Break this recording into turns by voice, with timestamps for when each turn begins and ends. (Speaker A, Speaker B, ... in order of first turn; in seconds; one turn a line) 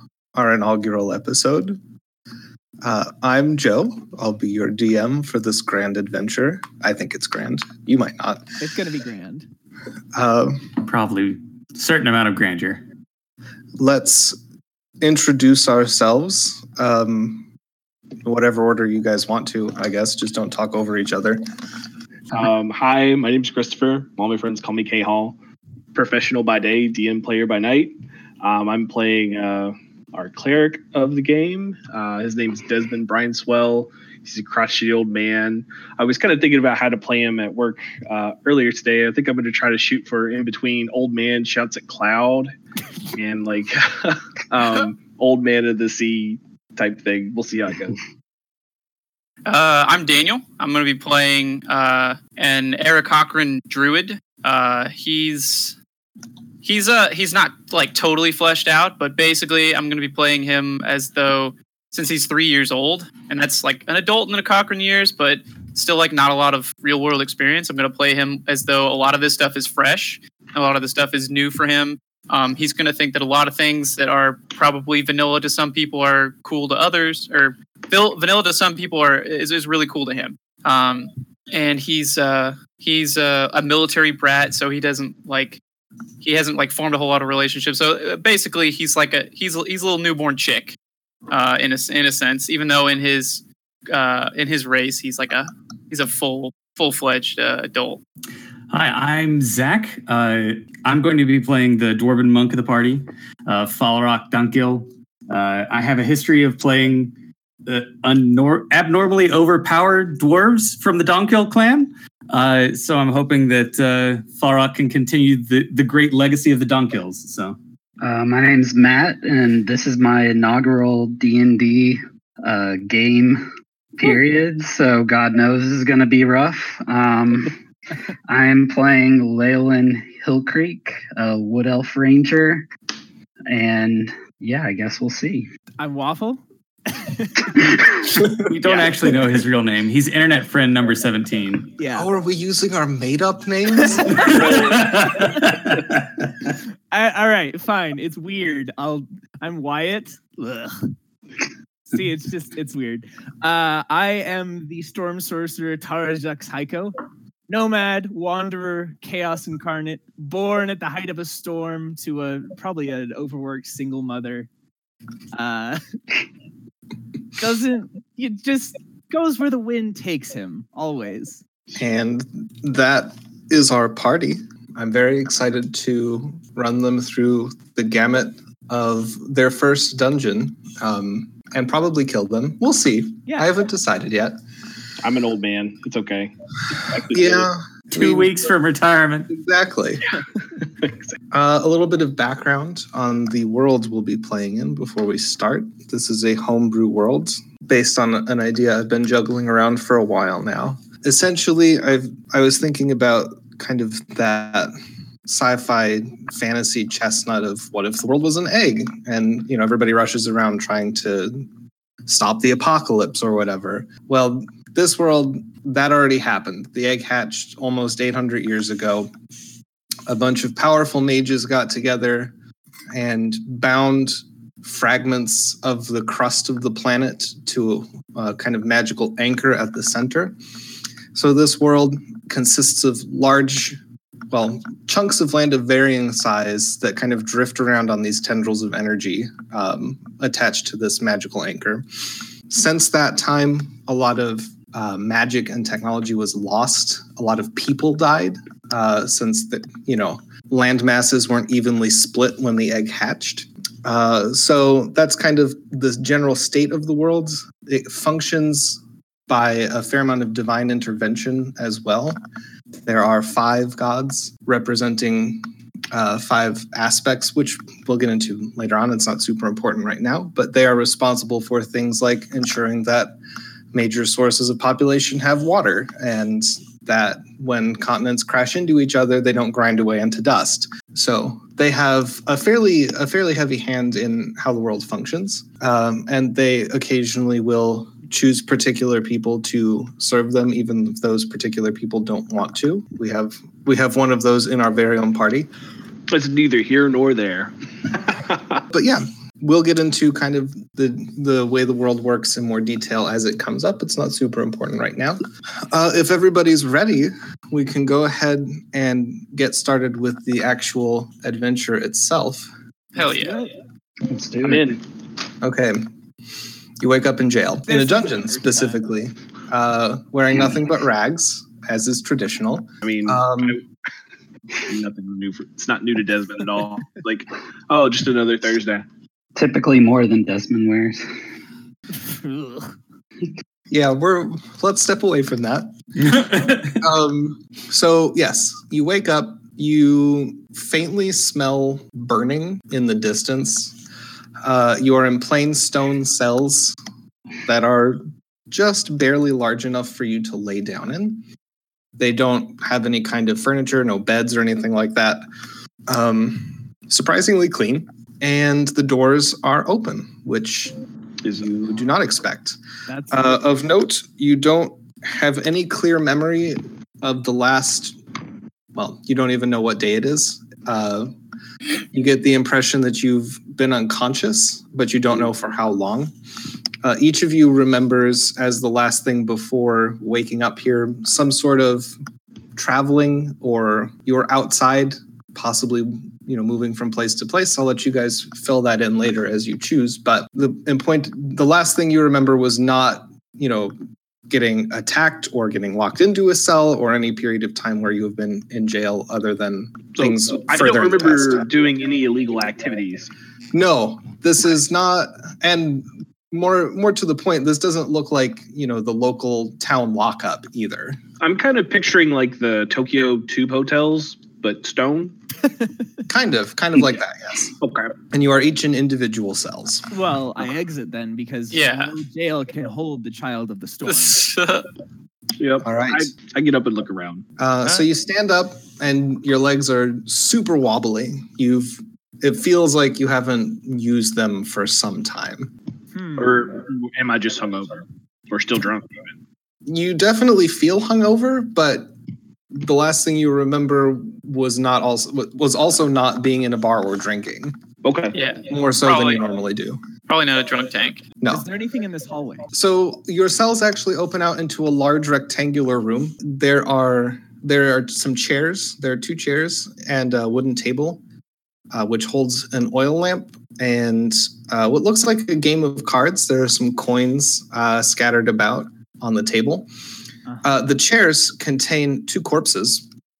Speaker A: 0.3-1.8
Speaker A: 2.8-8.6
Speaker B: 8.6-9.5
Speaker A: 10.1-10.7
Speaker C: 10.8-12.8
Speaker A: 13.8-14.4
Speaker A: 15.0-17.5
Speaker A: 18.2-21.4
Speaker D: 22.3-25.4
Speaker D: 25.9-42.5
Speaker D: 43.1-48.0
Speaker E: 49.5-55.8
Speaker E: 56.6-85.6
Speaker E: 86.2-90.8
Speaker E: 91.3-98.0
Speaker C: 98.7-107.1
Speaker C: 107.7-117.6
Speaker F: 118.0-127.6
Speaker F: 128.3-132.7
Speaker F: 133.5-135.5
Speaker B: 135.8-137.8
Speaker C: 138.2-141.7
Speaker B: 138.6-138.9
Speaker B: 141.8-142.1
Speaker A: 141.9-144.4
Speaker C: 144.3-145.9
Speaker D: 144.4-144.8
Speaker B: 146.9-150.9
Speaker B: 151.9-157.0
Speaker B: 157.5-164.5
Speaker B: 165.3-165.8
Speaker B: 167.4-171.4
Speaker A: 171.8-184.4
Speaker D: 185.0-187.5
Speaker A: 187.1-188.3
Speaker C: 187.9-189.3
Speaker A: 189.3-190.1
Speaker A: 191.3-204.7
Speaker A: 205.3-211.5
Speaker A: 212.1-219.1
Speaker A: 220.1-222.3
Speaker A: 222.9-230.4
Speaker A: 231.1-233.8
Speaker A: 234.3-241.9
Speaker A: 242.5-262.2
Speaker A: 262.9-273.2
Speaker A: 273.7-295.5
Speaker D: 296.1-298.6
Speaker A: 298.7-312.5
Speaker E: 313.0-313.4
Speaker F: 314.1-314.8
Speaker D: 314.4-314.8
Speaker A: 315.4-315.9
Speaker A: 316.8-323.6
Speaker B: 317.7-318.8
Speaker D: 322.8-323.6
Speaker D: 324.6-328.9
Speaker F: 329.4-331.1
Speaker B: 332.0-332.7
Speaker A: 333.7-335.7
Speaker C: 336.0-336.8
Speaker A: 336.6-343.8
Speaker A: 344.4-346.8
Speaker A: 347.5-351.2
Speaker A: 352.0-355.3
Speaker A: 355.9-360.8
Speaker D: 361.2-361.8
Speaker A: 361.6-362.6
Speaker B: 362.9-363.4
Speaker A: 363.1-368.0
Speaker A: 368.8-371.1
Speaker A: 371.9-376.1
Speaker A: 376.8-381.9
Speaker A: 382.6-393.8
Speaker A: 394.3-401.5
Speaker D: 399.9-403.1
Speaker A: 403.5-411.0
Speaker D: 411.2-415.1
Speaker A: 416.1-417.6
Speaker D: 417.6-418.0
Speaker A: 418.1-419.9
Speaker B: 419.9-424.3
Speaker E: 421.5-421.9
Speaker E: 423.9-424.7
Speaker D: 425.4-427.3
Speaker A: 425.6-426.1
Speaker A: 427.4-435.5
Speaker B: 435.9-436.4
Speaker D: 436.2-439.1
Speaker A: 439.7-441.9
Speaker A: 442.6-447.6
Speaker D: 447.8-448.2
Speaker E: 448.1-449.2
Speaker A: 448.5-449.8
Speaker E: 450.1-451.1
Speaker A: 451.2-451.5
Speaker B: 451.3-452.5
Speaker A: 452.5-461.0
Speaker A: 461.7-469.7
Speaker A: 470.4-472.9